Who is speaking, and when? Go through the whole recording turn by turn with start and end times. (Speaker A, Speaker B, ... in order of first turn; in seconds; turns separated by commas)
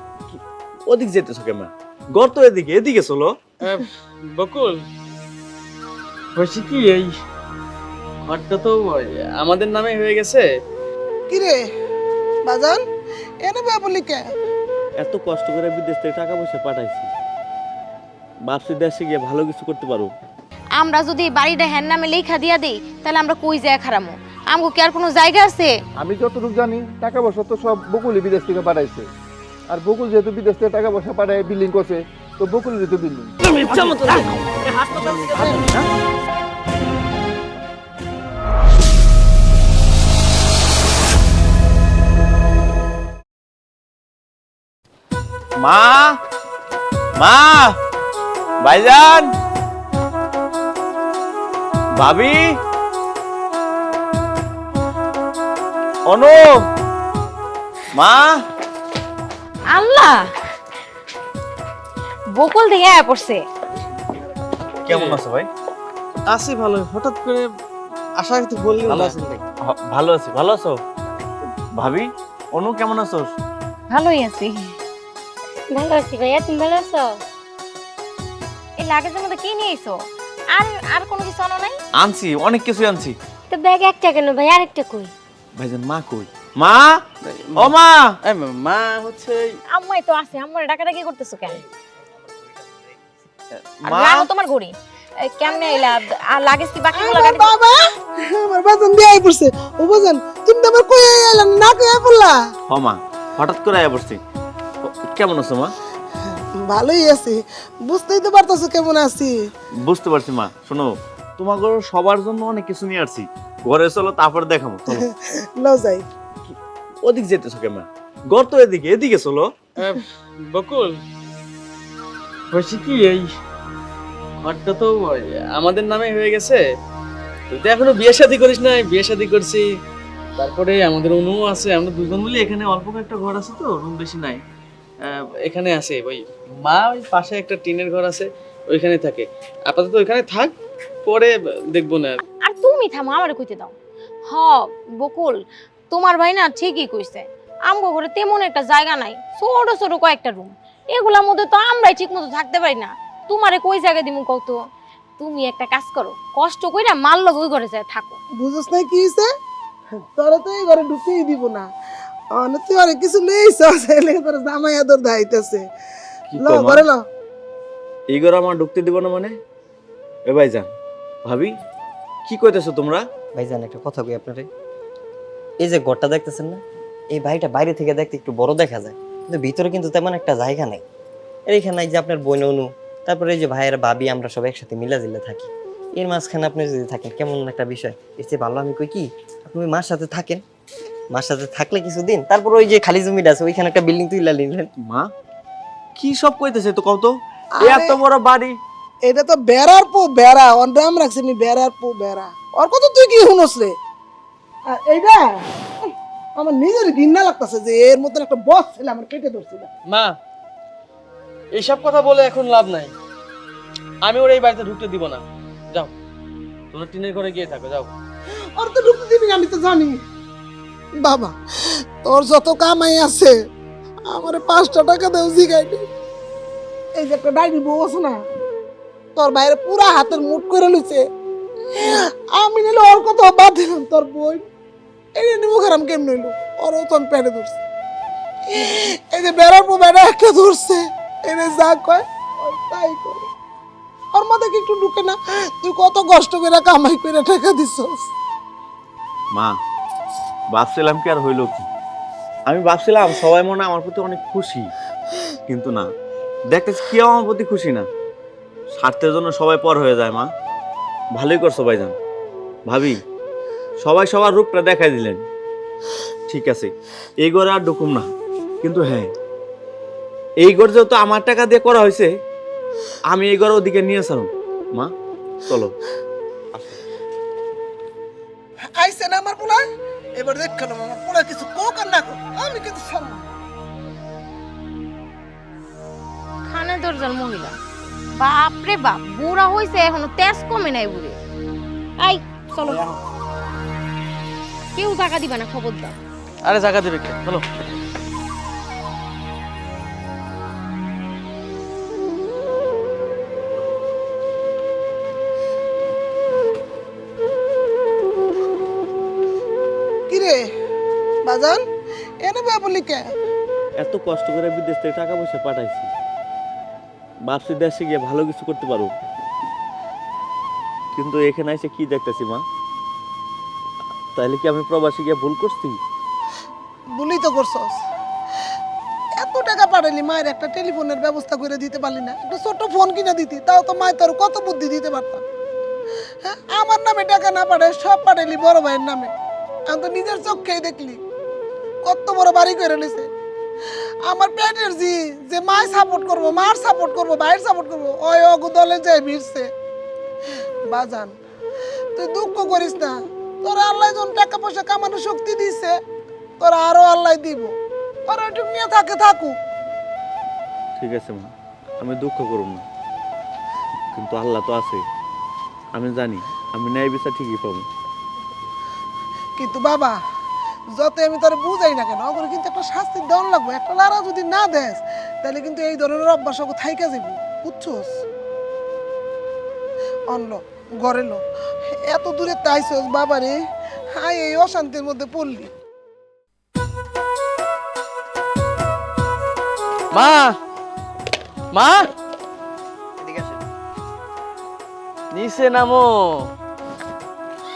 Speaker A: 0.3-3.3, Speaker B: 3.6-4.8, Speaker B: 6.3-7.1, Speaker B: 8.2-10.5, Speaker C: 11.3-11.7, Speaker C: 12.4-12.8, Speaker C: 13.4-14.2, Speaker A: 15.0-17.1, Speaker A: 18.5-20.1, Speaker D: 20.8-25.7, Speaker E: 26.0-29.1, Speaker E: 29.7-33.3, Speaker B: 33.4-34.3, Speaker A: 33.7-34.2, Speaker F: 33.7-35.7, Speaker A: 35.5-35.8, Speaker A: 45.6-46.2, Speaker A: 47.2-47.8, Speaker A: 48.6-49.3, Speaker A: 52.0-52.6, Speaker A: 56.1-56.6, Speaker A: 58.0-58.4, Speaker D: 59.7-60.3, Speaker D: 62.3-63.4, Speaker A: 64.8-65.5, Speaker B: 64.9-65.2, Speaker B: 66.3-67.5, Speaker B: 68.2-69.2, Speaker F: 68.8-69.4, Speaker A: 69.6-70.8, Speaker A: 71.8-73.3, Speaker D: 73.9-74.7, Speaker G: 75.7-77.2, Speaker D: 78.8-81.8, Speaker A: 82.0-83.2, Speaker G: 83.5-85.1, Speaker A: 85.6-87.0, Speaker B: 87.2-89.6, Speaker A: 87.5-88.2, Speaker D: 89.7-91.6, Speaker A: 93.6-94.2, Speaker D: 93.8-97.5, Speaker C: 95.6-95.8, Speaker C: 96.9-102.4, Speaker A: 102.7-104.2, Speaker A: 104.8-105.7, Speaker C: 106.3-109.5, Speaker A: 109.8-115.0, Speaker C: 114.9-116.0, Speaker A: 116.5-119.5, Speaker B: 119.8-121.0, Speaker B: 122.5-123.2, Speaker B: 124.4-126.6, Speaker B: 127.5-129.7, Speaker B: 130.4-134.4, Speaker B: 135.0-140.5, Speaker B: 141.1-142.2, Speaker D: 142.4-143.7, Speaker D: 144.3-145.4, Speaker D: 145.9-154.6, Speaker D: 155.2-158.2, Speaker C: 158.4-159.3, Speaker C: 160.2-161.7, Speaker C: 162.3-165.6, Speaker A: 166.3-166.8, Speaker C: 166.4-167.0, Speaker A: 168.1-169.3, Speaker A: 170.3-170.7, Speaker A: 171.2-171.5, Speaker A: 172.2-173.0, Speaker F: 173.3-174.5, Speaker F: 175.6-180.8, Speaker F: 181.5-190.4, Speaker F: 191.1-194.7, Speaker A: 194.8-195.1, Speaker A: 195.9-198.6, Speaker C: 197.6-198.0, Speaker C: 199.1-203.7, Speaker C: 204.7-209.7, Speaker B: 209.9-210.2, Speaker B: 211.5-212.9, Speaker B: 214.0-215.9, Speaker B: 216.7-217.9, Speaker C: 218.6-220.0, Speaker C: 221.0-223.4, Speaker C: 224.1-225.9, Speaker C: 226.9-228.2, Speaker C: 229.2-231.1, Speaker C: 231.7-234.4, Speaker C: 235.2-237.6, Speaker C: 238.5-243.3, Speaker C: 244.1-248.1, Speaker A: 249.3-249.6, Speaker A: 250.5-251.7, Speaker A: 252.5-254.7, Speaker A: 255.5-255.9, Speaker A: 256.5-257.9, Speaker A: 258.7-260.3, Speaker A: 261.1-261.9, Speaker A: 262.7-263.0, Speaker A: 263.8-265.2, Speaker A: 266.3-268.1, Speaker A: 268.6-269.1, Speaker A: 270.4-272.1, Speaker A: 273.1-274.9, Speaker A: 275.4-275.7, Speaker C: 278.8-279.6, Speaker C: 280.2-283.2, Speaker D: 286.4-287.6, Speaker D: 288.2-291.2, Speaker D: 292.0-293.0, Speaker D: 294.7-295.9, Speaker B: 296.4-297.4, Speaker C: 310.1-310.5, Speaker C: 311.2-311.6, Speaker C: 312.2-313.1, Speaker A: 313.8-315.9, Speaker A: 317.3-318.9, Speaker A: 320.9-322.4, Speaker A: 324.1-325.8, Speaker C: 327.0-327.8, Speaker C: 329.2-335.2, Speaker C: 336.2-339.1, Speaker C: 339.7-341.0, Speaker C: 341.8-343.1, Speaker C: 344.0-349.5, Speaker C: 350.7-351.2, Speaker C: 351.9-355.8, Speaker C: 356.4-357.6, Speaker C: 358.1-359.4, Speaker A: 360.8-362.6, Speaker A: 363.9-364.8, Speaker A: 365.7-367.7, Speaker C: 369.4-370.0, Speaker C: 370.7-378.0, Speaker C: 380.1-383.4, Speaker C: 383.9-385.5, Speaker B: 389.9-390.4, Speaker B: 391.5-391.9, Speaker F: 393.0-393.4, Speaker B: 395.1-396.3